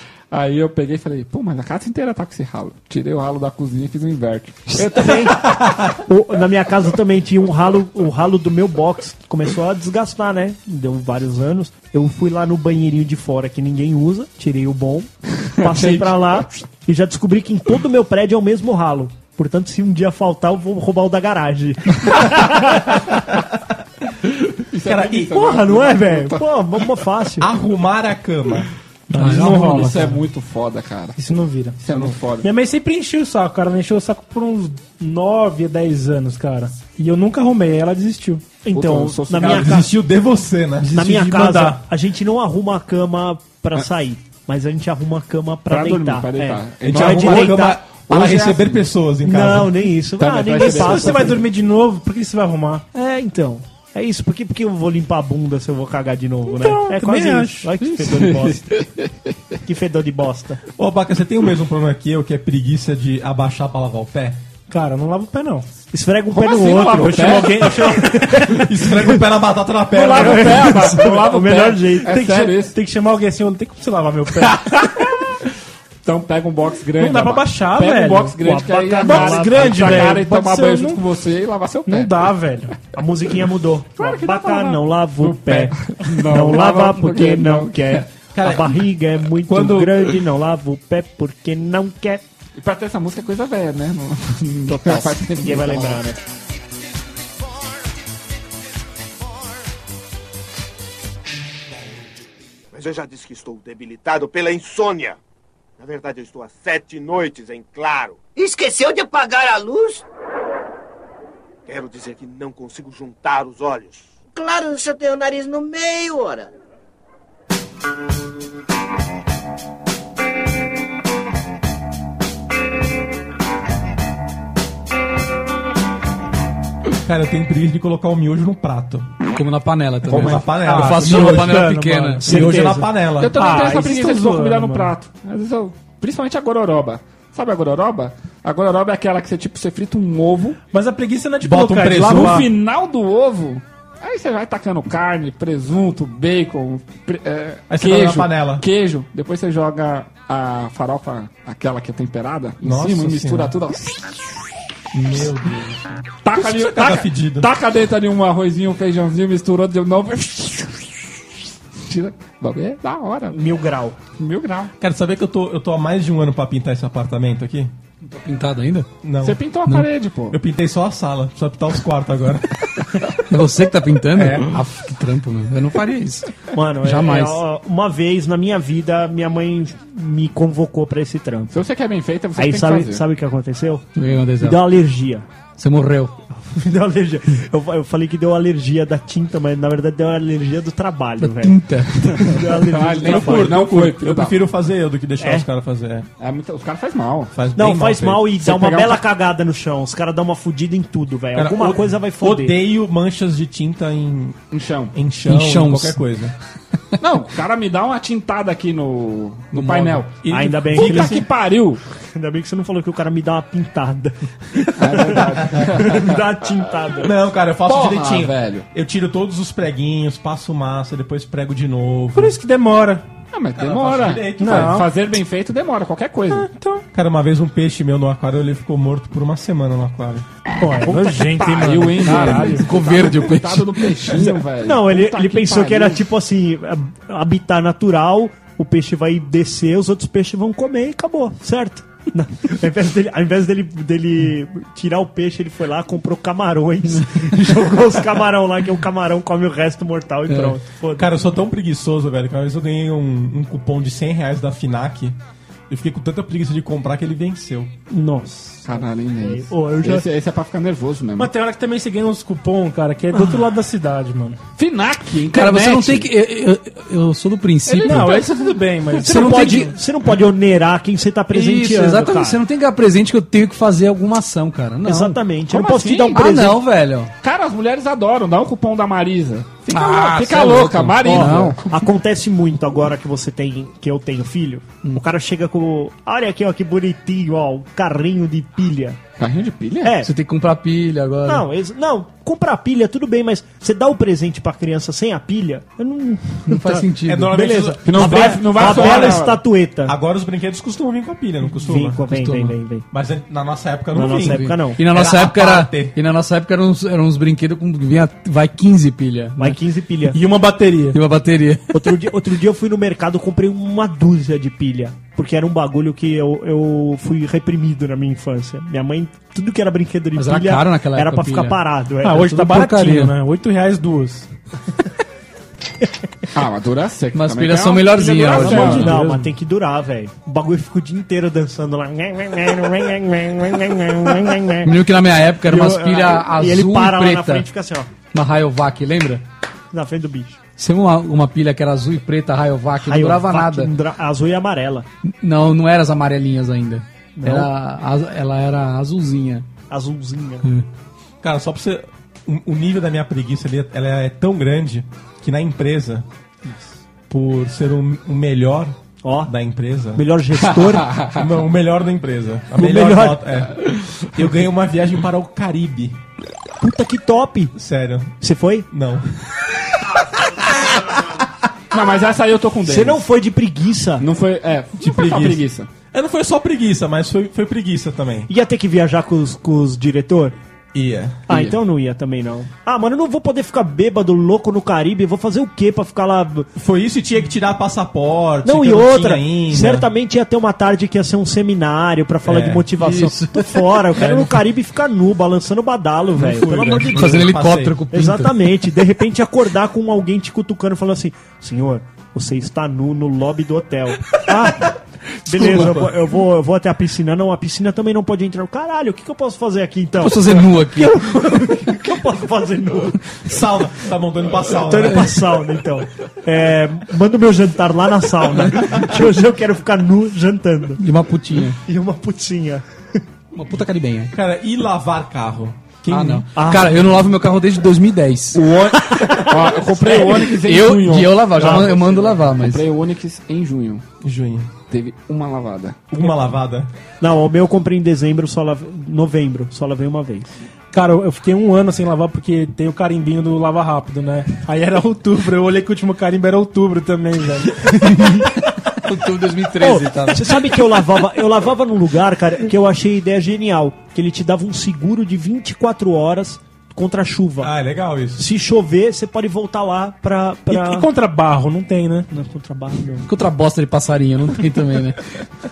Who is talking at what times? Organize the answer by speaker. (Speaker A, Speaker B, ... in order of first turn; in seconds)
Speaker A: 0.3-5.4, 15.6-16.4, 24.4-26.4, 29.1-31.2, 31.8-32.5, 38.7-39.8, 45.7-48.8, 50.2-51.4, 57.9-59.4, 66.3-68.0, 69.9-72.8, 74.4-75.4, 76.0-82.3, 84.0-88.1, 92.6-96.0, 130.1-130.4, 133.2-140.6, 142.0-154.1, 156.2-161.2, 161.8-163.4, 164.2-164.7, 169.2-170.4, 181.5-183.0, 192.1-194.4, 196.2-197.3, 198.4-199.0, 204.5-204.9, 207.0-210.1, 210.7-211.8, 214.8-216.6, 217.7-218.7, 223.3-226.5, 230.8-236.0, 258.6-261.3, 264.6-266.1, 267.7-269.0, 275.5-276.5, 277.2-281.6, 289.2-289.9, 297.9-299.4, 326.3-328.9, 360.6-361.2, 371.7-373.1, 374.0-375.7, 381.3-381.6, 428.3-433.8, 434.7-435.9
Speaker B: 4.8-23.2, 25.3-27.5, 38.6-39.9, 40.9-47.8, 49.2-51.4, 52.9-58.7, 59.6-60.6, 65.9-69.2, 70.0-72.2, 78.4-80.2, 82.9-92.2, 94.7-96.2, 163.3-163.9, 176.5-181.5, 182.4-183.8, 184.4-185.2, 186.4-193.5, 195.2-195.4, 197.6-202.6, 210.3-211.2, 212.1-217.1, 234.6-251.1, 257.9-260.1, 263.1-263.4, 269.0-272.4, 274.8-276.6, 281.0-289.0, 289.8-290.1, 291.2-299.9, 301.6-302.8, 303.9-304.8, 309.4-310.2, 311.7-322.3, 328.4-334.7, 335.4-337.9, 339.7-340.4, 342.8-344.8, 347.2-347.5, 349.7-350.5, 359.0-359.3, 359.9-360.9, 362.6-363.4, 366.6-367.5, 368.2-368.7, 372.6-374.1, 378.3-380.4, 381.3-386.5, 388.4-397.3, 397.9-413.0, 414.5-420.8, 421.6-422.6, 426.3-426.7, 428.7-430.3, 437.0-440.3, 449.6-457.5, 458.1-460.9, 462.1-463.1
Speaker C: 5.4-6.0, 24.8-25.5, 27.4-28.7, 31.9-32.2, 39.4-40.9, 46.8-49.9, 60.8-64.4, 68.4-70.7, 88.3-88.8, 89.4-90.2, 127.0-129.1, 130.1-133.4, 141.4-142.5, 147.7-148.6, 152.6-153.5, 154.9-157.5, 164.8-167.7, 169.0-169.4, 170.3-172.7, 174.1-174.5, 193.0-196.1, 197.3-198.3, 201.3-204.4, 204.9-206.3, 210.2-211.2, 217.0-222.4, 223.6-224.8, 226.9-230.2, 250.9-255.2, 255.7-257.7, 297.0-299.3, 299.9-302.0, 302.9-306.0, 351.2-356.1, 357.1-360.0, 361.1-365.9, 367.6-368.1, 368.7-369.1, 374.8-375.4, 375.9-378.3, 380.7-381.2, 386.6-389.9, 392.2-392.6, 396.2-397.8, 413.2-415.1, 424.1-426.3, 434.0-434.5, 435.9-436.7, 457.4-458.2
Speaker D: 29.1-30.2, 31.2-31.8, 32.4-38.5, 40.8-41.8, 50.5-52.8, 56.5-57.7, 64.7-65.7, 66.9-68.3, 72.1-75.0, 77.0-78.4, 79.0-81.0, 81.9-82.7, 130.5-134.9, 140.7-142.5, 222.1-223.1, 224.4-224.9, 226.3-226.8, 230.6-232.7, 261.2-264.4, 267.7-269.7, 310.1-311.0, 322.0-324.3, 328.5-329.3, 440.7-448.0, 460.5-462.1
Speaker E: 29.1-29.9, 129.3-132.5, 168.0-168.9, 173.3-176.3, 176.8-177.4, 183.9-184.6, 185.6-186.1, 191.2-192.4, 205.3-205.9, 209.5-210.0, 232.1-233.9, 250.3-250.6, 265.3-268.3, 269.0-269.7, 271.3-275.2, 276.1-277.1, 279.7-281.6, 290.0-291.4, 296.5-297.4, 302.1-302.5, 304.3-309.6, 310.9-311.8, 320.1-321.6, 322.2-323.1, 327.1-328.9, 334.6-337.4, 338.1-339.2, 340.6-343.7, 345.2-349.4, 392.7-394.1, 396.9-398.5, 405.3-405.9, 410.0-411.0, 420.8-421.6, 423.3-424.1, 425.9-428.4, 430.3-432.6, 448.7-450.6, 463.1-465.0
Speaker F: 102.7-105.2, 105.8-108.3, 111.7-114.1
Speaker G: 108.3-110.0, 114.3-116.5